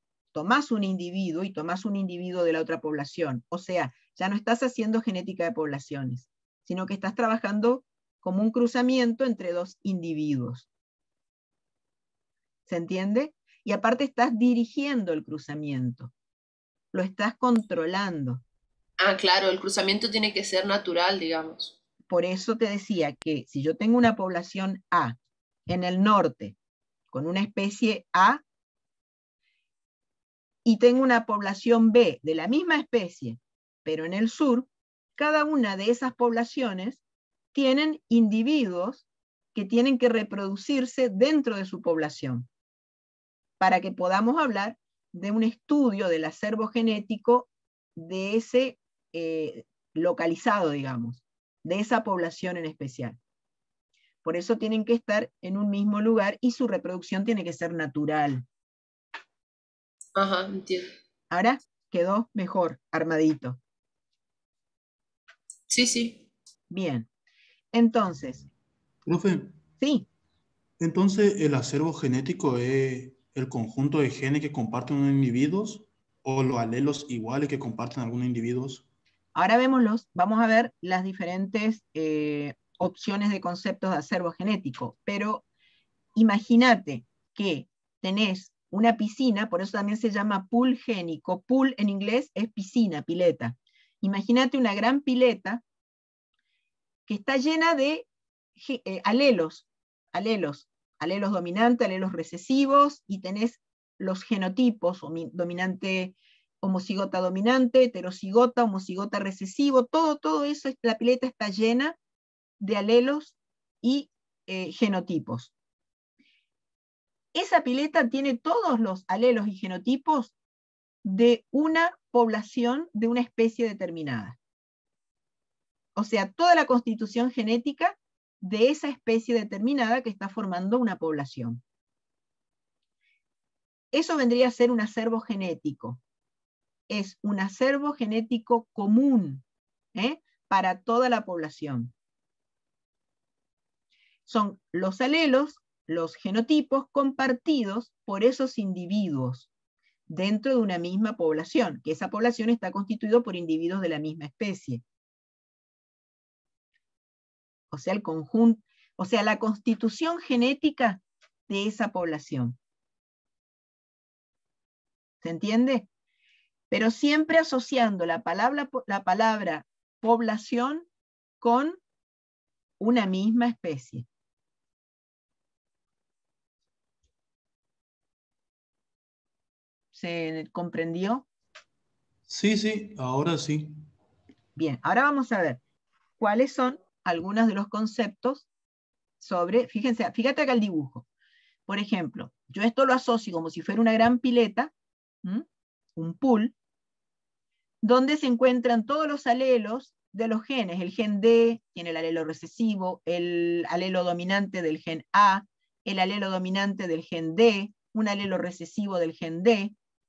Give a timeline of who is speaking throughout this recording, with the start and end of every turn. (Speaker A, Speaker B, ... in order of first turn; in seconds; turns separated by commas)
Speaker A: 0.3-10.7, Speaker A: 12.7-16.1, Speaker A: 16.9-18.4, Speaker B: 19.0-21.8, Speaker A: 22.1-25.2, Speaker A: 25.7-26.6, Speaker A: 27.1-28.4, Speaker A: 30.6-37.0, Speaker A: 37.5-42.5, Speaker A: 43.6-53.2, Speaker A: 54.2-58.5, Speaker B: 60.2-60.9, Speaker A: 61.3-63.6, Speaker B: 65.7-66.2, Speaker A: 66.7-67.1, Speaker A: 67.7-68.5, Speaker C: 69.1-69.6, Speaker A: 69.8-70.1, Speaker C: 70.8-78.8, Speaker A: 79.3-85.4, Speaker A: 86.2-95.6, Speaker A: 97.1-112.0, Speaker A: 112.6-115.5, Speaker A: 117.3-120.3, Speaker A: 121.0-124.4, Speaker A: 126.0-131.6, Speaker A: 133.9-136.0, Speaker A: 136.9-139.4, Speaker A: 139.9-141.9, Speaker A: 144.3-149.5, Speaker A: 150.1-154.8, Speaker A: 157.7-162.6, Speaker A: 165.2-165.9, Speaker A: 166.7-170.9, Speaker A: 171.4-171.8, Speaker A: 172.8-174.1, Speaker A: 179.9-181.3, Speaker C: 182.3-183.8, Speaker A: 184.6-185.6, Speaker A: 186.2-188.5, Speaker A: 189.2-191.1, Speaker A: 191.7-194.7, Speaker A: 195.2-196.5, Speaker A: 197.8-209.8